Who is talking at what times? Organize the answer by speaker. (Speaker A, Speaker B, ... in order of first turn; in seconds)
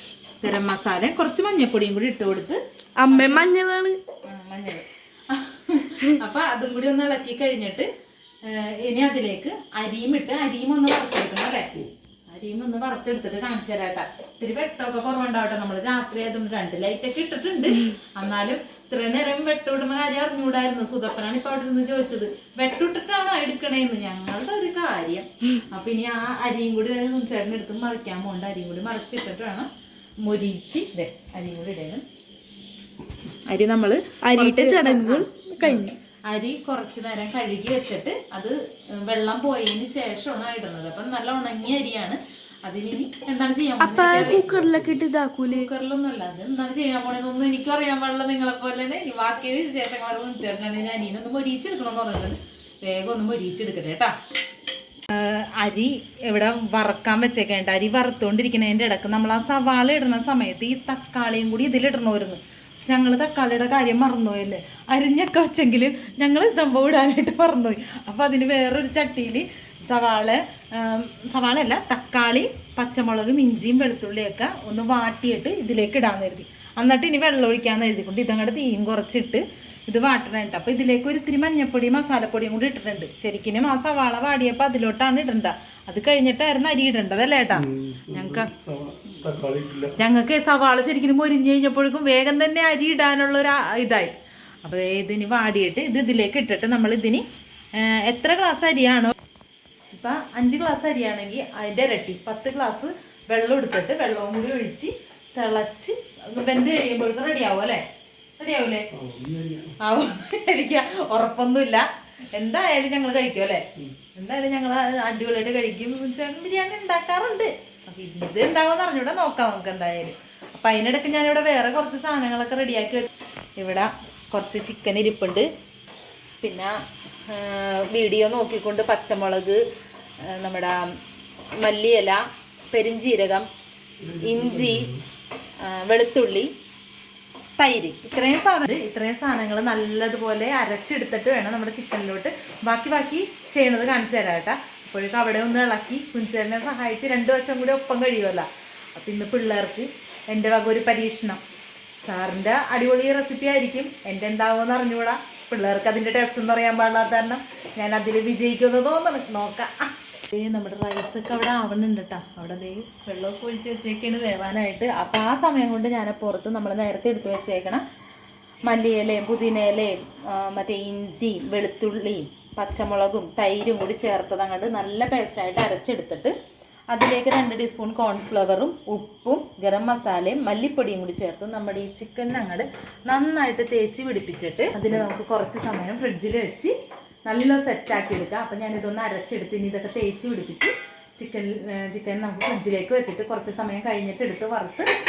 Speaker A: 0.4-3.5, 4.2-7.9, 8.4-11.7, 12.3-29.7, 30.2-32.0, 33.5-44.5, 45.5-54.1, 55.1-88.5, 90.0-94.1, 94.6-97.2, 97.8-99.1, 99.9-107.8, 108.4-108.9, 109.8-113.6, 114.2-125.5, 126.4-126.7, 127.3-129.6, 130.2-130.9, 131.6-133.5, 134.2-134.9, 135.6-136.5, 137.6-151.4, 152.0-167.8, 168.7-176.3, 176.9-186.7, 187.2-194.9
Speaker B: 3.0-4.0, 34.2-35.9, 43.8-45.7
Speaker C: 43.9-45.0, 87.5-90.0, 108.9-109.7, 134.0-135.0